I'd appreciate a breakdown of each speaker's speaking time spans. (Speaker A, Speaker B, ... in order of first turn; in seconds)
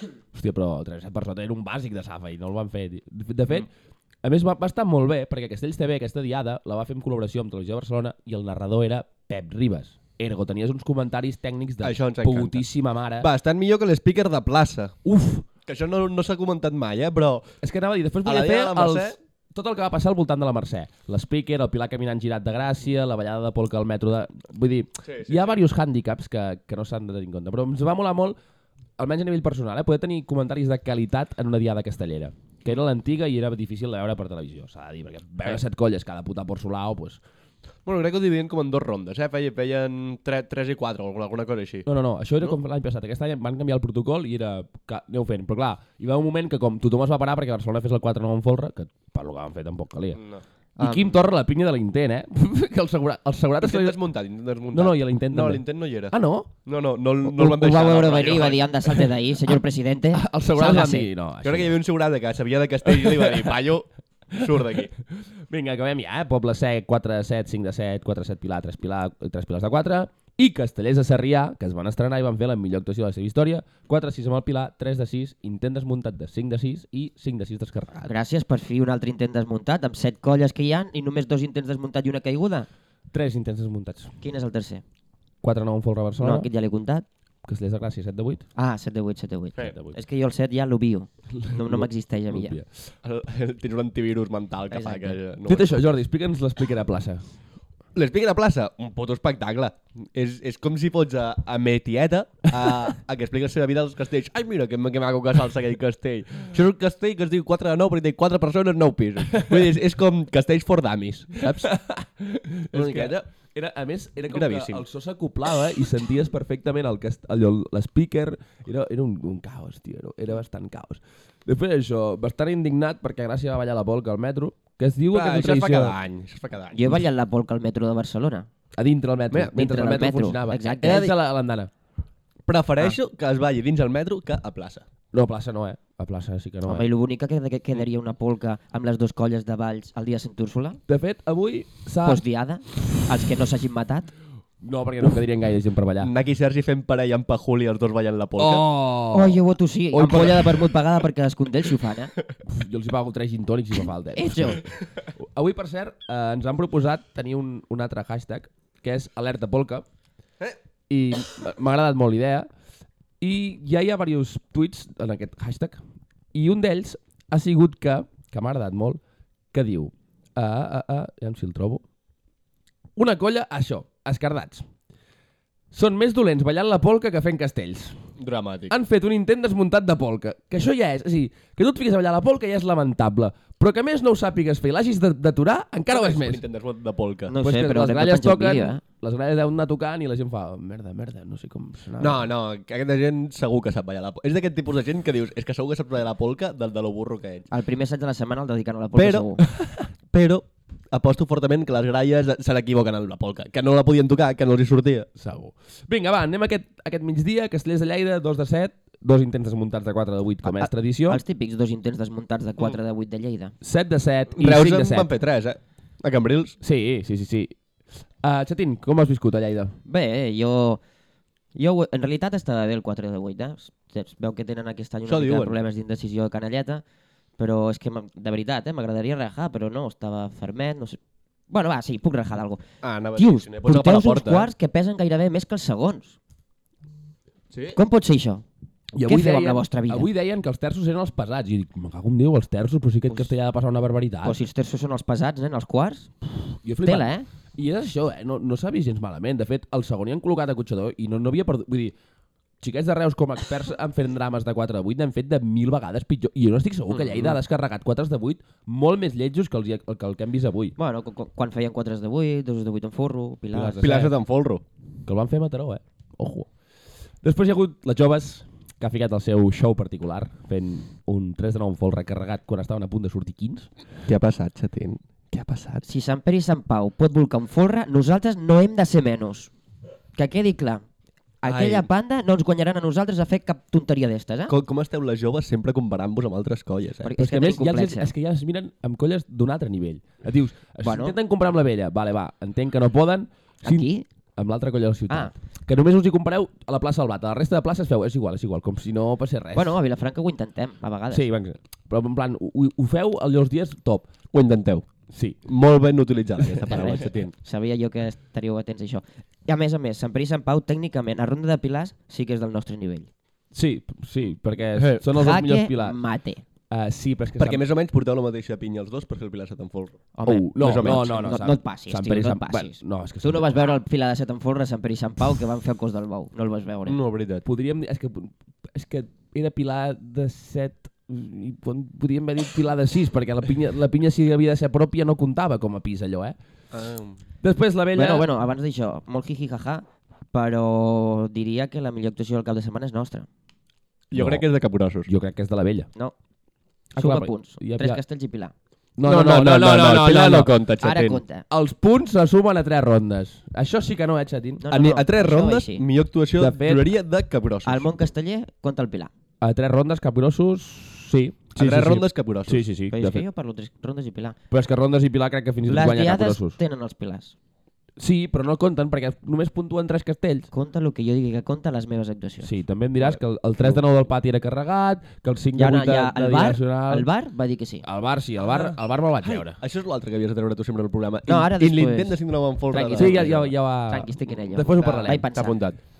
Speaker A: 0.3-3.7, 4.2-13.3, 17.6-28.4, 29.0-37.2, 41.9-50.2, 50.8-54.0, 54.7-56.5, 60.1-61.8, 62.9-63.5, 65.5-78.1, 83.1-84.1, 85.4-86.5, 87.4-88.4, 89.6-90.0, 91.3-92.7, 95.5-97.2, 109.3-109.6, 111.4-126.0, 128.8-131.7, 135.1-136.8, 140.9-142.2, 144.6-146.1, 148.4-149.4, 149.9-150.6, 152.4-159.8, 160.9-162.5, 163.2-165.8, 166.3-169.0, 169.5-171.8, 172.9-174.6, 175.7-178.0, 178.7-186.4, 187.4-192.2, 205.2-211.2, 213.6-215.1, 216.6-217.5, 218.2-219.7, 238.9-244.4, 246.6-251.9, 252.6-260.8, 263.5-264.1, 265.1-266.5, 267.2-273.7, 287.2-299.8, 301.1-304.1, 305.1-305.4, 306.4-307.0, 313.5-316.0, 316.7-317.6, 320.3-323.5, 327.4-336.4, 337.4-338.3, 344.1-344.4, 345.1-345.9, 346.9-348.0, 349.0-350.6, 351.5-354.6, 356.4-356.9, 359.4-363.2, 364.5-366.6, 368.0-370.5, 372.4-377.1, 377.8-379.6, 382.9-385.3
Speaker B: 11.8-12.7, 13.2-17.4, 18.2-19.1, 25.0-25.6, 37.9-41.9, 50.1-50.4, 53.6-58.6, 61.4-64.9, 93.0-95.9, 97.9-111.7, 112.7-113.2, 114.3-114.8, 125.1-127.0, 130.8-131.1, 132.5-134.8, 146.0-148.7, 178.2-178.7, 185.9-187.3, 192.0-197.5, 198.9-205.1, 214.3-216.6, 225.1-225.6, 232.8-234.5, 237.5-237.8, 263.7-264.6, 274.1-275.8, 281.4-281.9, 284.5-287.1, 304.3-304.9, 305.4-307.3, 314.8-315.0, 317.4-320.0, 320.6-321.3, 326.9-327.4, 336.7-337.2, 344.1-345.1, 349.0-351.2, 354.7-357.9, 361.6-362.6, 378.4-383.5, 384.8-385.8
Speaker C: 50.8-51.1, 57.3-61.1, 78.1-82.7, 84.2-84.8, 86.2-87.0, 88.5-92.6, 94.7-95.2, 126.7-128.5, 129.3-131.1, 136.6-140.8, 142.0-144.1, 149.1-152.1, 154.1-154.6, 187.3-188.8, 197.5-199.4, 210.5-213.5, 219.8-220.8, 221.5-226.8, 227.4-231.0, 231.5-232.6, 233.2-236.2, 237.7-238.4, 239.0-240.1, 244.2-246.1, 246.8-247.2, 257.1-257.4, 260.8-263.8, 275.8-279.5, 280.1-280.8, 281.4-284.5, 287.0-288.1, 290.8-291.1, 293.6-294.0, 299.5-301.3, 306.8-313.1, 315.1-316.4, 320.1-327.0, 337.9-343.3, 346.9-348.5, 350.8-351.4, 354.6-355.8, 357.6-359.1, 362.9-364.4, 365.7-367.3, 370.5-372.5, 375.6-377.8, 381.3-382.2, 382.7-383.4, 383.9-385.6